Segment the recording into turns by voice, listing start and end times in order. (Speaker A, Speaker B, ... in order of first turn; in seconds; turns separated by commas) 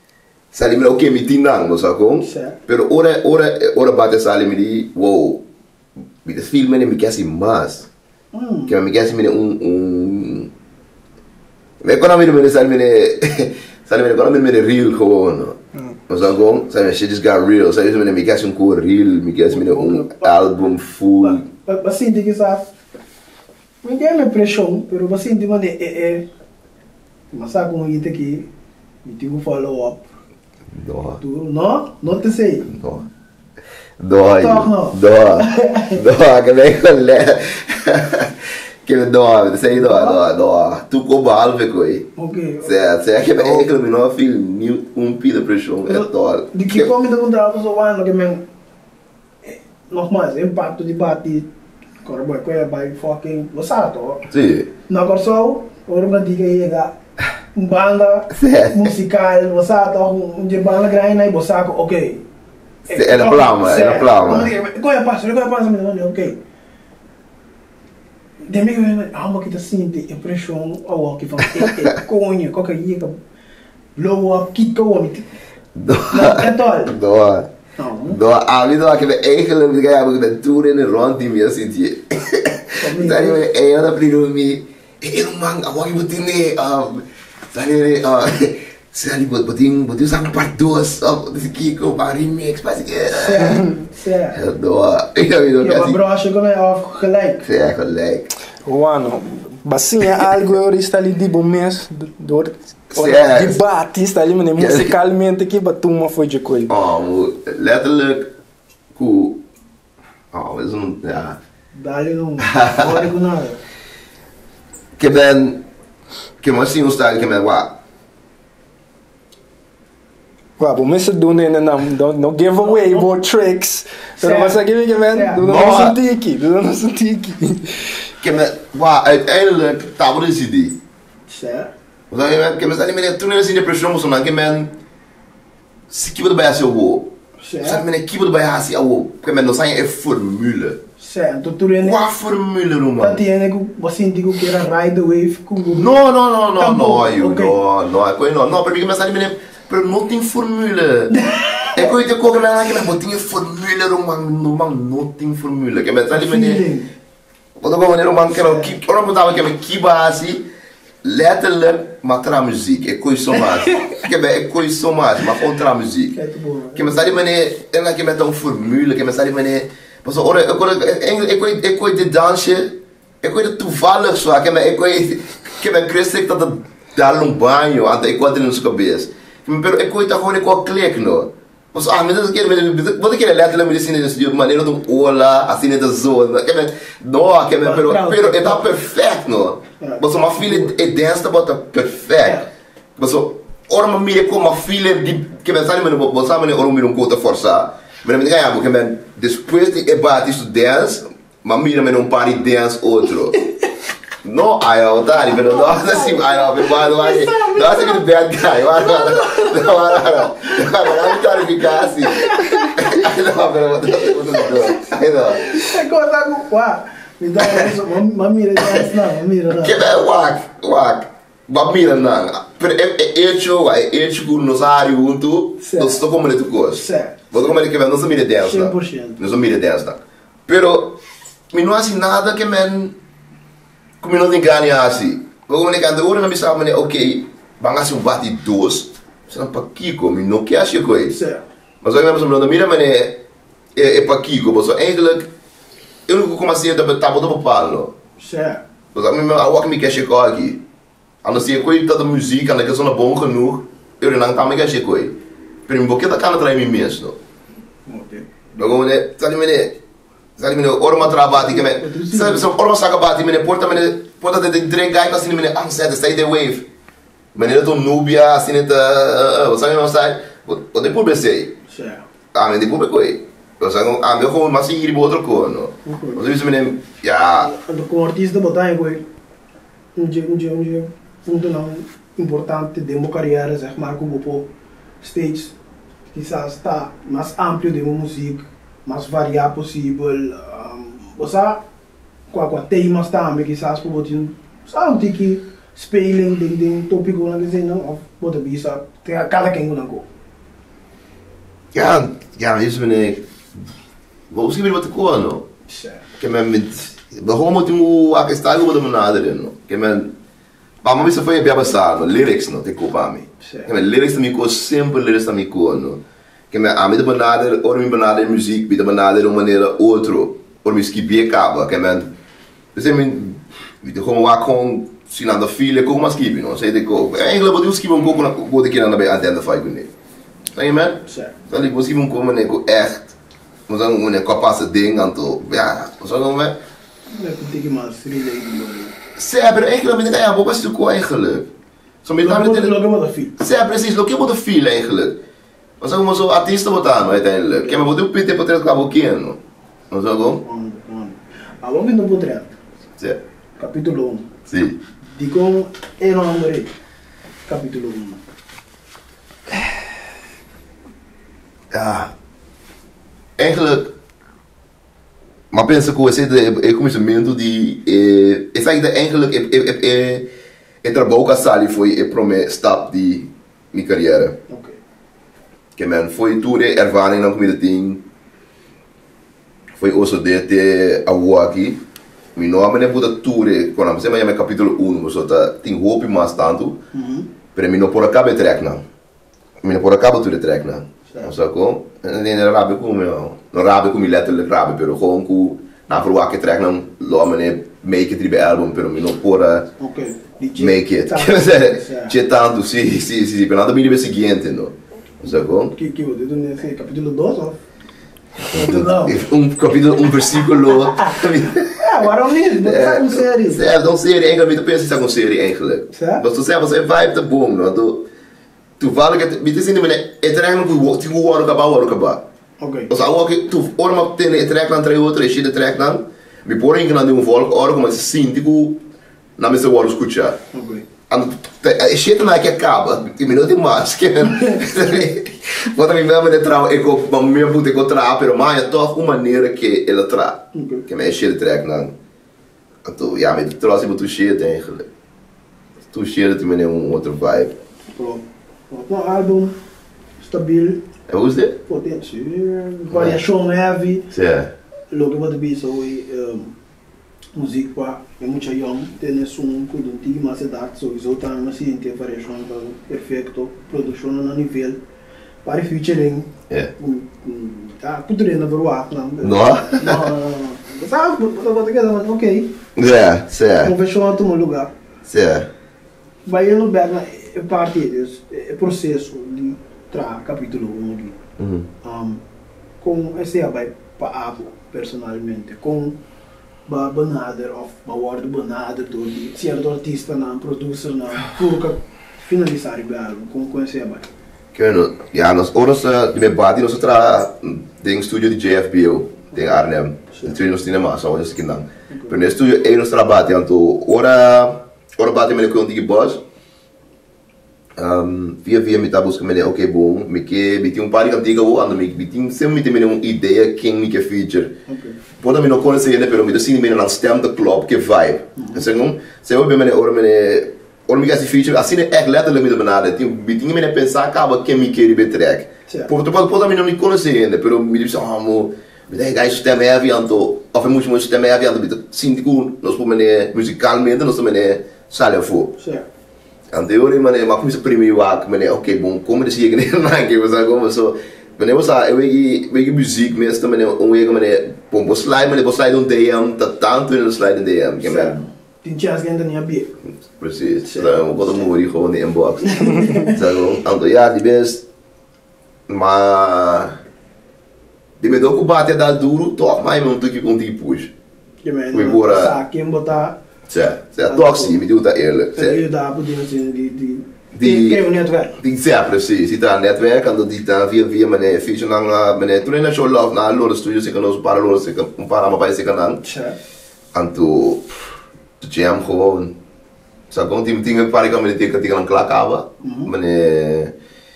Speaker A: 0.5-5.4, Speaker B: 2.2-2.6, Speaker A: 6.2-7.9, Speaker B: 8.3-8.8, Speaker A: 8.7-10.5, Speaker A: 11.8-15.6, Speaker A: 16.1-21.4, Speaker B: 19.5-20.4, Speaker B: 21.2-22.7, Speaker B: 23.8-26.3, Speaker B: 27.3-28.5, Speaker B: 29.0-30.1, Speaker A: 30.7-31.2, Speaker B: 31.2-32.7, Speaker A: 32.7-33.1, Speaker A: 34.0-42.1, Speaker B: 34.4-36.0, Speaker B: 39.7-40.2, Speaker B: 42.2-43.7, Speaker A: 42.6-46.9, Speaker B: 45.9-48.4, Speaker B: 49.4-51.5, Speaker B: 52.0-54.3, Speaker A: 54.3-54.7, Speaker B: 54.9-57.0, Speaker B: 57.5-62.2, Speaker A: 58.3-58.9, Speaker B: 62.9-66.4, Speaker A: 62.9-64.5, Speaker B: 68.5-73.2, Speaker A: 71.6-71.9, Speaker B: 74.0-75.3, Speaker A: 75.8-77.5, Speaker B: 76.1-77.0, Speaker B: 77.8-78.2, Speaker A: 78.1-93.7, Speaker B: 82.8-83.4, Speaker B: 93.1-94.4, Speaker A: 94.3-96.0, Speaker B: 95.6-97.5, Speaker A: 97.4-98.3, Speaker C: 98.7-106.7, Speaker A: 102.9-103.6, Speaker A: 104.6-104.9, Speaker A: 106.7-108.3, Speaker A: 108.9-109.4, Speaker A: 110.3-111.4, Speaker B: 111.8-113.6, Speaker A: 112.5-113.1, Speaker A: 115.0-115.6, Speaker A: 116.4-117.8, Speaker C: 120.6-128.1, Speaker B: 122.6-123.1, Speaker B: 124.2-125.4, Speaker A: 125.4-126.0, Speaker A: 128.2-130.8, Speaker B: 131.3-131.7, Speaker A: 132.1-134.8, Speaker A: 135.9-140.8, Speaker B: 137.4-137.8, Speaker B: 141.0-142.1, Speaker A: 141.8-143.2, Speaker B: 143.0-146.0, Speaker A: 145.7-151.2, Speaker B: 146.6-147.6, Speaker B: 151.1-152.0, Speaker A: 151.7-156.6, Speaker B: 156.1-156.9, Speaker A: 157.6-160.5, Speaker B: 158.3-158.7, Speaker A: 161.0-166.2, Speaker B: 166.1-167.2, Speaker A: 166.8-192.4, Speaker B: 187.6-188.7, Speaker B: 189.8-190.7, Speaker A: 193.0-203.4, Speaker A: 204.2-215.6, Speaker B: 205.2-208.0, Speaker B: 208.8-212.9, Speaker B: 214.1-219.9, Speaker A: 218.6-218.9, Speaker A: 219.5-231.0, Speaker B: 225.6-226.0, Speaker B: 226.8-227.6, Speaker B: 228.4-229.2, Speaker A: 231.5-233.0, Speaker A: 234.0-241.2, Speaker B: 241.1-241.4, Speaker A: 241.8-243.2, Speaker A: 243.8-245.3, Speaker A: 246.1-247.9, Speaker B: 248.2-248.6, Speaker A: 248.9-250.6, Speaker A: 251.2-257.2, Speaker B: 257.9-258.7, Speaker A: 258.6-259.8, Speaker A: 260.4-266.7, Speaker B: 261.0-262.5, Speaker A: 267.4-271.6, Speaker B: 271.7-272.1, Speaker A: 272.3-277.5, Speaker B: 275.9-276.2, Speaker B: 277.4-279.1, Speaker B: 280.0-284.5, Speaker B: 285.0-285.6, Speaker B: 286.1-291.6, Speaker B: 292.3-300.1, Speaker A: 301.7-303.2, Speaker A: 304.3-305.5, Speaker B: 305.7-306.0, Speaker A: 306.2-310.1, Speaker A: 310.8-322.1, Speaker B: 313.4-313.7, Speaker A: 322.8-329.9, Speaker A: 330.5-333.1, Speaker B: 331.1-331.3, Speaker A: 333.7-336.6, Speaker B: 337.1-339.0, Speaker A: 339.2-341.5, Speaker A: 342.0-342.8, Speaker B: 342.2-343.4, Speaker A: 343.4-345.2, Speaker A: 345.8-349.4, Speaker A: 349.9-350.4, Speaker B: 350.4-352.6, Speaker B: 353.6-354.3, Speaker A: 354.5-354.8, Speaker B: 355.1-356.7, Speaker B: 357.5-358.2, Speaker A: 361.7-362.1, Speaker A: 363.4-363.9, Speaker A: 365.5-370.3, Speaker A: 370.8-374.4, Speaker B: 374.5-374.8, Speaker A: 375.8-378.0, Speaker A: 379.8-381.8, Speaker A: 382.4-386.8, Speaker B: 386.9-387.3, Speaker A: 387.5-388.9, Speaker A: 389.6-399.7, Speaker B: 399.8-402.2, Speaker A: 400.6-405.8, Speaker B: 405.7-407.6, Speaker A: 408.4-418.1, Speaker B: 408.5-409.2, Speaker B: 410.9-413.6, Speaker B: 415.9-416.2, Speaker A: 418.8-422.2, Speaker B: 422.6-422.9, Speaker A: 422.9-428.8, Speaker A: 429.4-430.4, Speaker B: 430.5-430.9, Speaker A: 431.1-441.9, Speaker B: 434.3-434.7, Speaker B: 440.5-440.9, Speaker A: 442.8-444.9, Speaker A: 445.9-447.6, Speaker B: 447.9-449.6, Speaker B: 450.2-450.8, Speaker A: 451.1-451.6, Speaker B: 451.7-454.1, Speaker A: 452.9-453.2, Speaker A: 454.1-454.5, Speaker B: 454.9-456.5, Speaker B: 457.4-464.8, Speaker B: 465.4-472.5, Speaker A: 469.2-470.1, Speaker A: 472.8-473.7, Speaker B: 473.6-474.7, Speaker A: 475.1-475.5, Speaker B: 476.2-481.2, Speaker A: 481.4-481.7, Speaker B: 481.8-482.2, Speaker B: 482.8-486.0, Speaker B: 486.7-494.1, Speaker A: 494.5-506.2, Speaker B: 501.9-502.2, Speaker A: 507.8-514.5, Speaker B: 514.7-515.0, Speaker A: 515.2-535.5, Speaker B: 518.4-518.7, Speaker B: 535.6-535.9, Speaker A: 536.5-548.2, Speaker B: 547.8-549.7, Speaker A: 550.2-554.6, Speaker B: 550.6-551.5, Speaker B: 552.5-553.2, Speaker A: 555.7-556.8, Speaker A: 558.0-560.9, Speaker B: 561.4-563.2, Speaker A: 561.7-562.4, Speaker A: 563.5-565.6, Speaker B: 564.1-564.6, Speaker B: 565.4-568.4, Speaker A: 567.3-567.8, Speaker A: 568.4-576.0, Speaker B: 576.0-576.4, Speaker A: 576.9-577.9, Speaker A: 578.4-579.4, Speaker A: 580.1-583.8, Speaker B: 582.6-582.9